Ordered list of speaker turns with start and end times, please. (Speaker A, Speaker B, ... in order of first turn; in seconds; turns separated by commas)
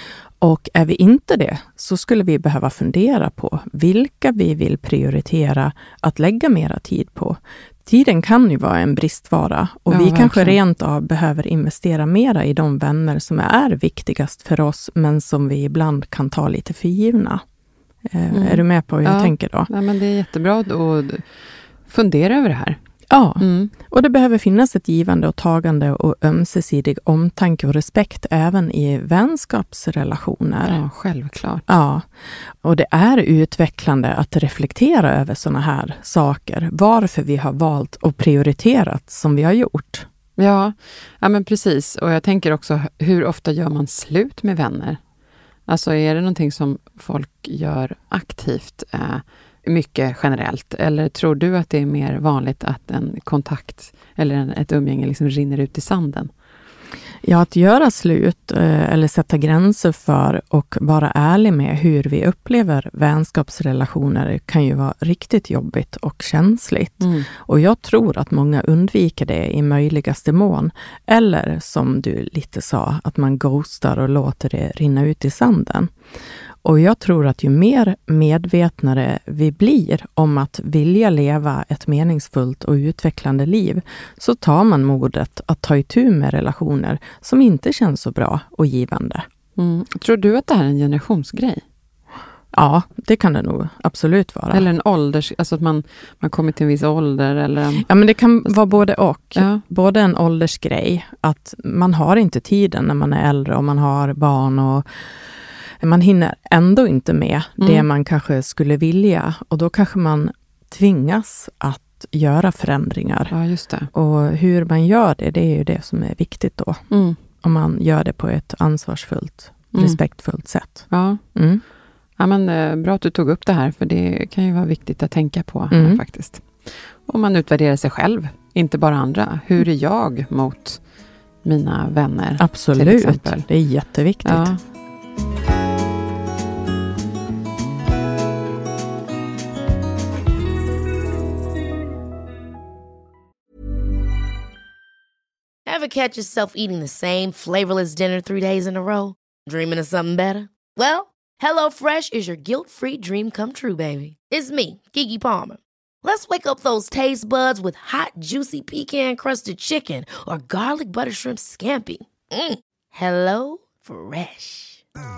Speaker A: 0.4-17.4, Speaker B: 9.9-10.6, Speaker A: 18.1-19.7, Speaker B: 18.3-21.2, Speaker B: 21.9-22.8, Speaker A: 23.1-30.8, Speaker B: 23.4-23.7, Speaker B: 30.6-31.7, Speaker A: 31.7-40.0, Speaker B: 40.4-45.0, Speaker B: 45.7-56.3, Speaker A: 57.2-75.9, Speaker B: 67.0-67.3, Speaker A: 76.6-89.2, Speaker B: 89.6-91.6, Speaker A: 92.5-94.7, Speaker B: 94.5-97.9, Speaker A: 97.8-105.0, Speaker B: 99.3-99.6, Speaker A: 105.8-113.3, Speaker B: 107.6-107.8, Speaker B: 113.3-113.9, Speaker A: 113.9-116.8, Speaker B: 116.9-117.2, Speaker A: 117.4-121.6, Speaker B: 119.7-120.0, Speaker B: 120.9-121.2, Speaker B: 122.2-130.8, Speaker A: 125.7-126.0, Speaker B: 131.4-133.5, Speaker A: 132.4-134.5, Speaker B: 134.2-134.6, Speaker C: 145.7-164.8